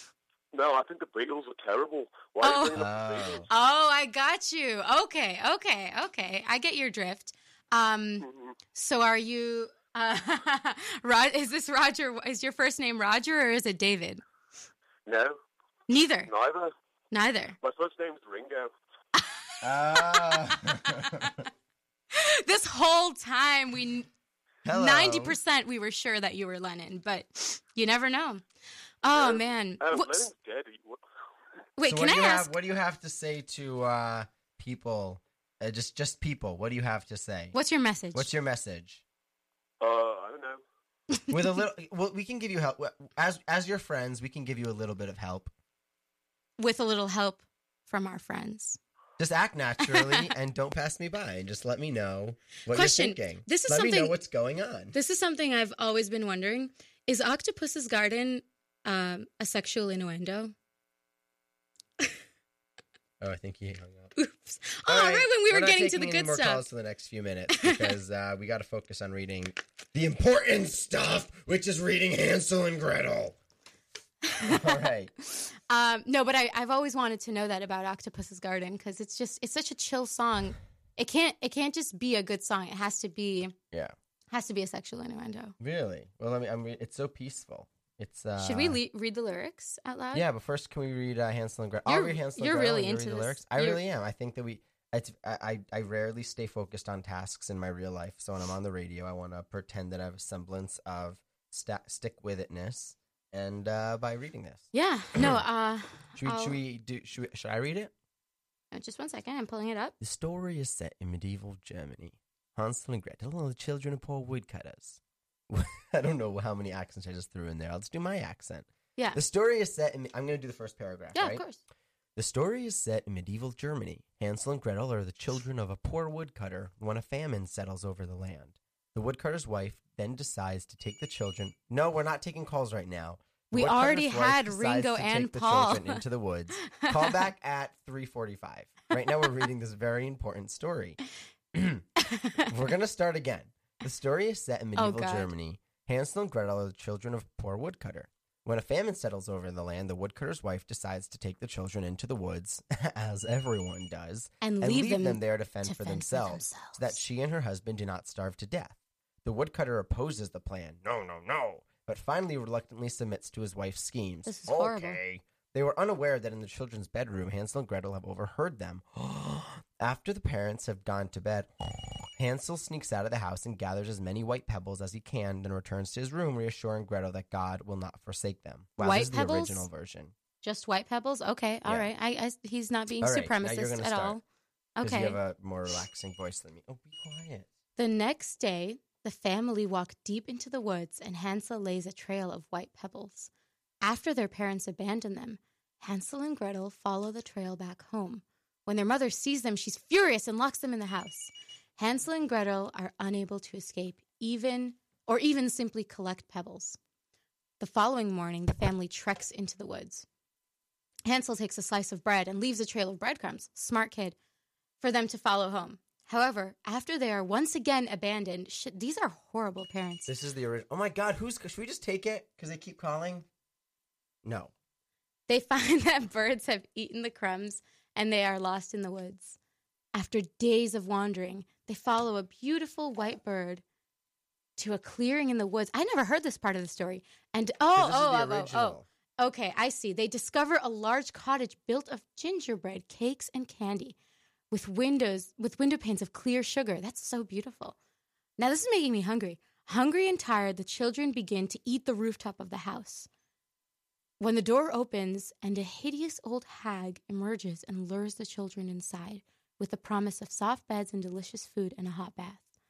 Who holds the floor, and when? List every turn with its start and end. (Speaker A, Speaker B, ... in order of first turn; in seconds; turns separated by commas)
Speaker A: 0.5-3.4, Speaker B: 2.4-2.9, Speaker C: 2.8-3.5, Speaker B: 3.5-14.2, Speaker A: 8.2-8.6, Speaker A: 15.1-15.4, Speaker B: 15.9-16.3, Speaker A: 16.3-16.7, Speaker B: 17.1-17.6, Speaker A: 17.6-18.7, Speaker C: 19.6-21.4, Speaker B: 19.7-21.3, Speaker B: 22.1-24.1, Speaker C: 24.6-25.4, Speaker B: 24.7-28.4, Speaker B: 29.0-30.3, Speaker A: 29.1-31.0, Speaker B: 31.8-32.5, Speaker C: 31.8-37.5, Speaker B: 37.5-38.3, Speaker C: 38.1-39.0, Speaker A: 39.8-40.6, Speaker C: 41.3-45.5, Speaker B: 46.6-48.8, Speaker C: 49.2-55.0, Speaker B: 49.8-50.3, Speaker B: 52.7-54.2, Speaker B: 54.9-60.5, Speaker C: 63.2-64.2, Speaker B: 64.2-66.7, Speaker C: 64.9-73.4, Speaker B: 67.5-68.0, Speaker B: 74.3-83.5, Speaker C: 74.4-75.1, Speaker B: 84.3-85.5, Speaker C: 85.6-88.8, Speaker B: 88.4-90.3, Speaker C: 90.1-105.4, Speaker B: 91.9-93.8, Speaker B: 104.7-106.6, Speaker C: 106.2-107.9, Speaker B: 108.7-110.0, Speaker C: 110.0-121.5, Speaker B: 121.1-121.6, Speaker C: 122.2-141.0, Speaker B: 133.5-136.0, Speaker B: 136.6-137.2, Speaker C: 141.5-141.9, Speaker B: 142.0-142.5, Speaker C: 142.4-180.1, Speaker B: 144.8-145.3, Speaker B: 154.4-157.0, Speaker B: 164.2-165.0, Speaker B: 178.8-179.7, Speaker B: 180.4-184.2, Speaker C: 181.7-181.9, Speaker C: 183.0-184.2, Speaker B: 184.8-185.2, Speaker C: 184.8-187.5, Speaker B: 187.8-193.3, Speaker B: 193.8-206.8, Speaker B: 207.6-210.1, Speaker B: 211.1-214.2, Speaker B: 214.8-220.1, Speaker C: 220.1-223.3, Speaker C: 224.2-224.5, Speaker B: 225.3-229.4, Speaker B: 229.9-233.6, Speaker B: 234.6-243.9, Speaker C: 237.7-238.9, Speaker B: 244.5-247.8, Speaker B: 248.4-253.1, Speaker B: 254.2-262.4